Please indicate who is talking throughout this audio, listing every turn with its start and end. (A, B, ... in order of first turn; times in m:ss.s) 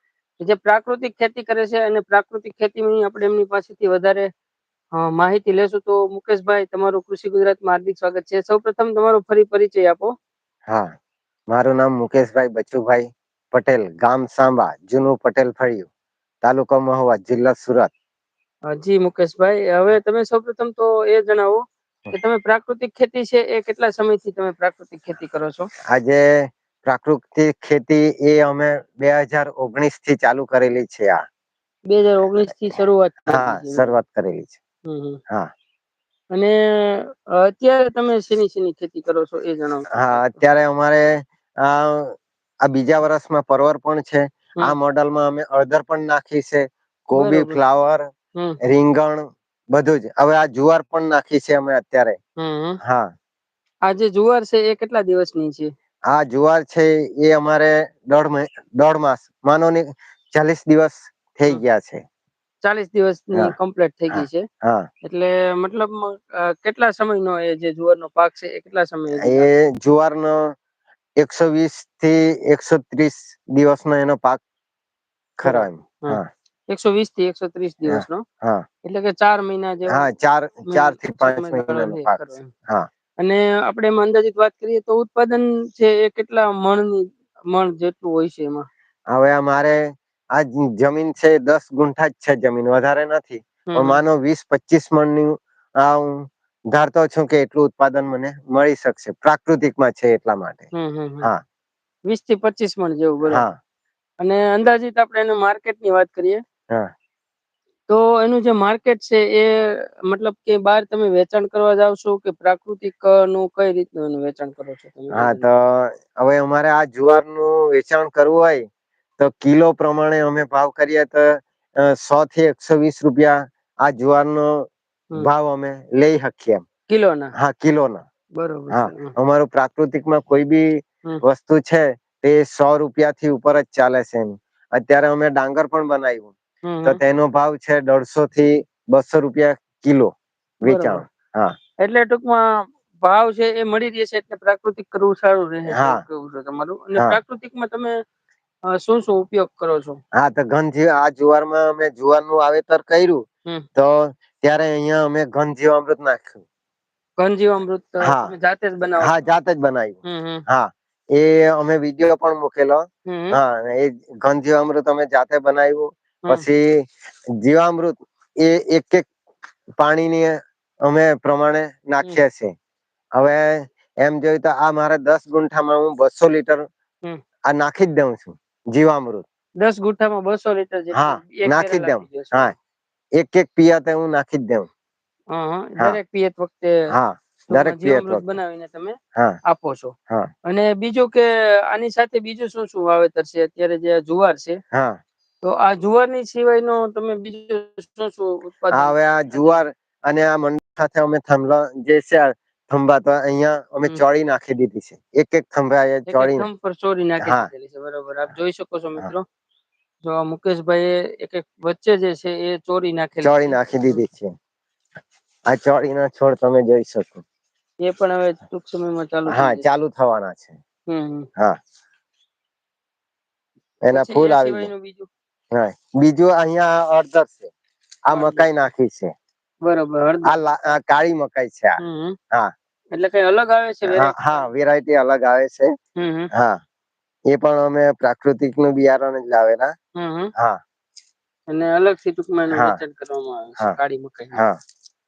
0:00.4-0:04.3 A
0:04.9-0:10.1 A
0:10.7-0:10.9 B
0:11.5-0:15.9 B
0:16.4-0:17.9 B
0:18.7-0:25.7 A
0:25.9-0:31.2 B
0:31.9-0:34.0 A
0:33.3-0:34.6 B
0:34.8-0:35.2 A
0:36.3-0:40.4 A
0:39.9-0:48.1 B
0:47.2-0:47.6 A
0:48.6-0:52.2 B
0:52.4-0:52.8 A
0:52.8-0:53.1 B
0:53.8-0:55.7 A
0:56.1-1:02.0 B
1:02.6-1:04.4 A
1:04.1-1:04.9 B
1:05.0-1:09.5 A
1:09.2-1:10.5 B
1:11.2-1:14.4 B
1:15.4-1:16.3 B
1:15.4-1:18.2 A
1:17.9-1:18.7 B
1:18.8-1:20.1 A
1:19.9-1:22.9 B
1:20.7-1:22.5 A
1:23.2-1:28.7 A
1:29.1-1:40.7 B
1:33.7-1:34.0 A
1:40.7-1:41.3 A
1:42.1-1:43.4 A
1:43.3-1:43.6 B
1:44.2-1:46.4 A
1:47.9-1:55.5 A
1:55.1-1:58.7 B
1:59.2-2:06.6 B
2:06.9-2:07.3 A
2:07.4-2:08.0 B
2:08.4-2:09.1 A
2:08.7-2:16.3 B
2:16.6-2:17.0 A
2:16.8-2:21.6 B
2:20.6-2:21.0 A
2:21.8-2:28.0 A
2:25.7-2:26.0 B
2:28.7-2:30.0 A
2:30.1-2:33.2 B
2:33.8-2:36.4 B
2:37.2-2:39.2 A
2:38.0-2:38.3 B
2:39.0-2:49.1 B
2:40.0-2:40.4 A
2:43.1-2:43.4 A
2:49.8-2:52.5 B
2:53.2-2:56.7 B
2:57.5-2:59.2 B
2:59.6-3:02.5 A
3:00.9-3:02.6 B
3:03.2-3:04.7 B
3:05.3-3:06.9 A
3:06.9-3:08.4 B
3:07.5-3:10.0 A
3:10.5-3:14.6 A
3:14.7-3:15.0 B
3:15.4-3:19.6 A
3:18.7-3:26.5 B
3:26.1-3:29.2 A
3:27.2-3:27.5 B
3:30.0-3:34.0 A
3:33.2-3:34.3 B
3:35.5-3:37.2 B
3:37.8-3:39.6 A
3:39.3-3:40.6 B
3:40.9-3:41.3 A
3:43.8-3:44.7 B
3:43.9-3:45.1 A
3:45.5-3:47.5 B
3:48.1-3:49.1 B
3:48.1-3:48.5 A
3:49.6-3:50.3 A
3:50.2-3:51.8 B
3:51.8-3:52.2 A
3:52.9-3:54.4 A
3:53.9-3:55.7 B
3:56.0-3:56.3 A
3:56.3-3:56.6 B
3:57.3-3:59.7 B
4:00.0-4:00.3 A
4:01.5-4:04.4 A
4:02.5-4:02.8 B